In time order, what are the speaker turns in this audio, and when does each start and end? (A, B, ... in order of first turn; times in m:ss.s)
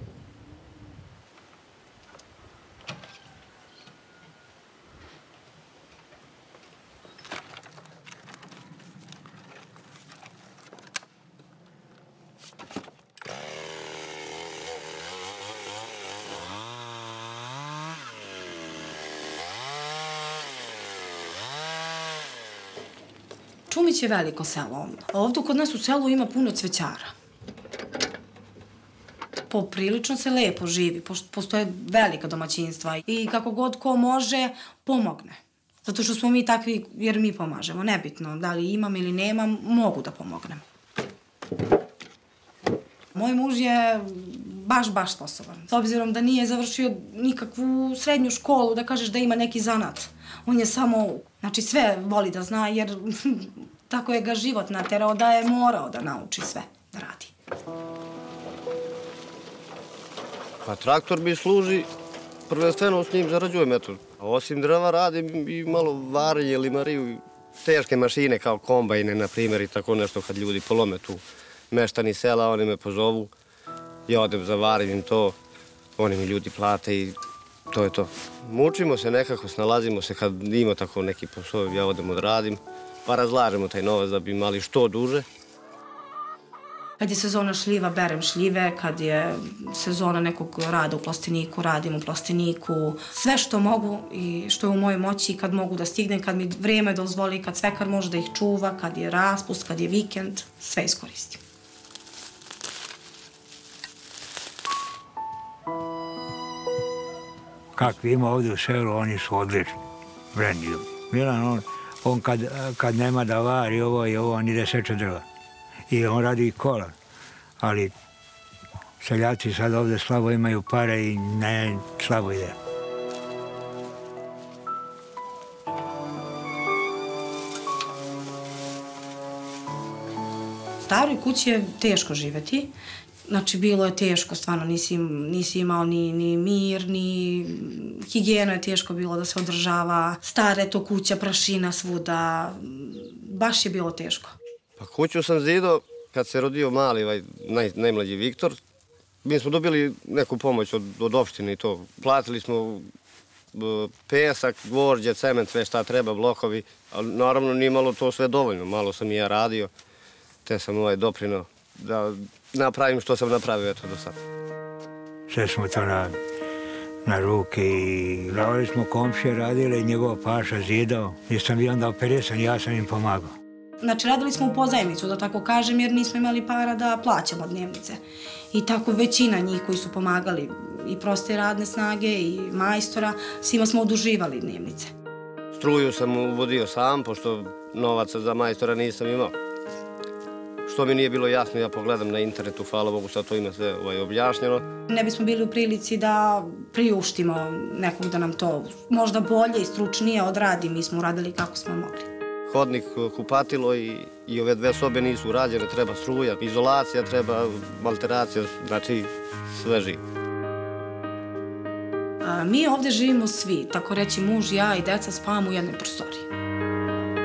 0:23.7-0:27.1 A
0:29.5-0:40.6 A
0:43.1-0:57.3 A
1:00.6-1:01.9 B
1:02.5-1:13.3 B
1:14.1-1:15.3 B
1:16.0-1:17.2 B
1:17.7-1:25.2 B
1:27.0-1:41.4 A
1:47.7-1:49.8 C
1:50.3-1:55.2 C
1:55.9-1:56.9 C
1:57.6-1:57.9 C
1:59.0-2:02.6 C
2:10.8-2:12.7 A
2:13.3-2:24.3 A
2:24.8-2:28.6 B
2:29.2-2:32.8 B
2:33.5-2:39.7 B
2:40.4-2:44.2 B
2:45.3-2:46.2 C
2:47.0-2:53.3 C
2:53.8-3:04.9 A
3:05.5-3:09.3 B
3:10.7-3:14.6 B
3:14.9-3:22.1 A
3:22.5-3:30.0 B
3:32.2-3:36.3 A